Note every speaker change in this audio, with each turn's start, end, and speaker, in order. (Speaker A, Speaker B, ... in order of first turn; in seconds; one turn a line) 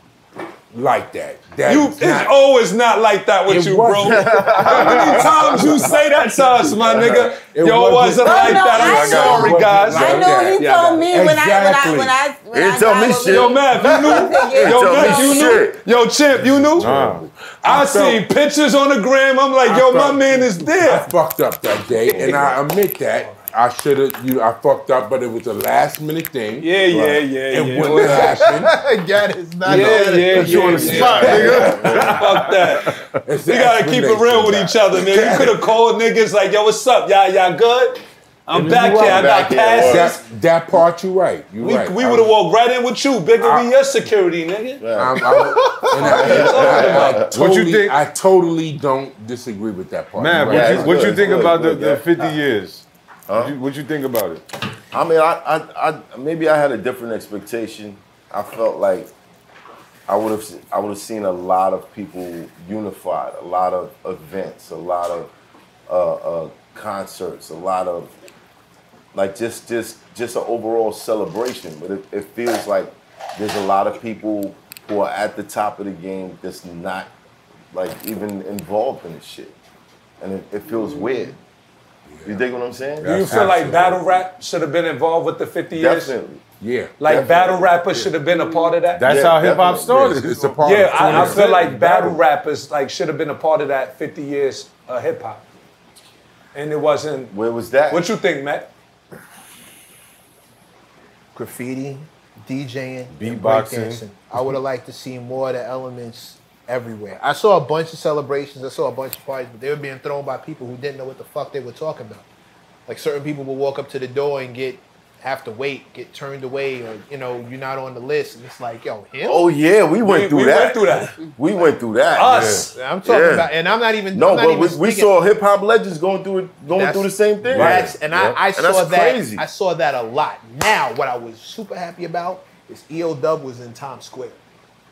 Speaker A: 0.7-2.4
Speaker B: 1.6-11.1
Speaker A: 3.5-12.2
Speaker C: 4.0-5.9
Speaker D: 4.8-5.1
Speaker C: 6.8-7.3
Speaker E: 8.2-15.6
Speaker D: 9.2-9.6
Speaker C: 12.5-15.8
Speaker B: 13.3-16.9
Speaker A: 16.4-18.3
Speaker D: 16.8-17.3
Speaker B: 17.6-21.1
Speaker A: 19.6-26.8
Speaker C: 22.1-22.6
Speaker B: 22.1-22.5
Speaker B: 26.6-28.6
Speaker C: 26.9-27.2
Speaker A: 27.5-28.8
Speaker F: 28.0-31.6
Speaker B: 29.6-33.0
Speaker C: 29.7-32.2
Speaker A: 30.5-32.2
Speaker D: 31.3-33.2
Speaker A: 33.2-35.7
Speaker B: 33.5-40.2
Speaker A: 38.5-42.3
Speaker C: 38.6-40.1
Speaker B: 41.6-44.8
Speaker A: 43.4-43.7
Speaker C: 44.8-47.4
Speaker A: 44.9-51.5
Speaker B: 46.0-47.2
Speaker D: 47.2-48.0
Speaker D: 50.1-54.4
Speaker C: 50.4-52.4
Speaker C: 53.3-53.5
Speaker C: 54.9-59.1
Speaker C: 60.1-65.3
Speaker C: 65.9-68.1
Speaker C: 69.1-77.1
Speaker C: 77.7-79.6
Speaker C: 80.2-81.4
Speaker E: 80.7-81.2
Speaker A: 82.1-82.4
Speaker C: 82.2-83.1
Speaker A: 83.0-84.3
Speaker B: 83.0-86.1
Speaker C: 85.8-86.5
Speaker A: 86.6-87.0
Speaker B: 87.0-89.1
Speaker C: 87.0-87.8
Speaker D: 88.9-92.2
Speaker C: 89.1-90.4
Speaker A: 89.9-91.8
Speaker B: 90.6-95.4
Speaker B: 96.5-97.3
Speaker C: 97.3-98.1
Speaker B: 97.9-98.7
Speaker F: 101.3-112.3
Speaker D: 103.1-104.5
Speaker F: 112.9-119.4
Speaker C: 119.2-123.5
Speaker B: 120.0-121.2
Speaker B: 122.1-122.8
Speaker D: 122.3-122.7
Speaker F: 122.7-125.1
Speaker C: 124.1-129.4
Speaker F: 126.7-134.4
Speaker D: 127.5-128.0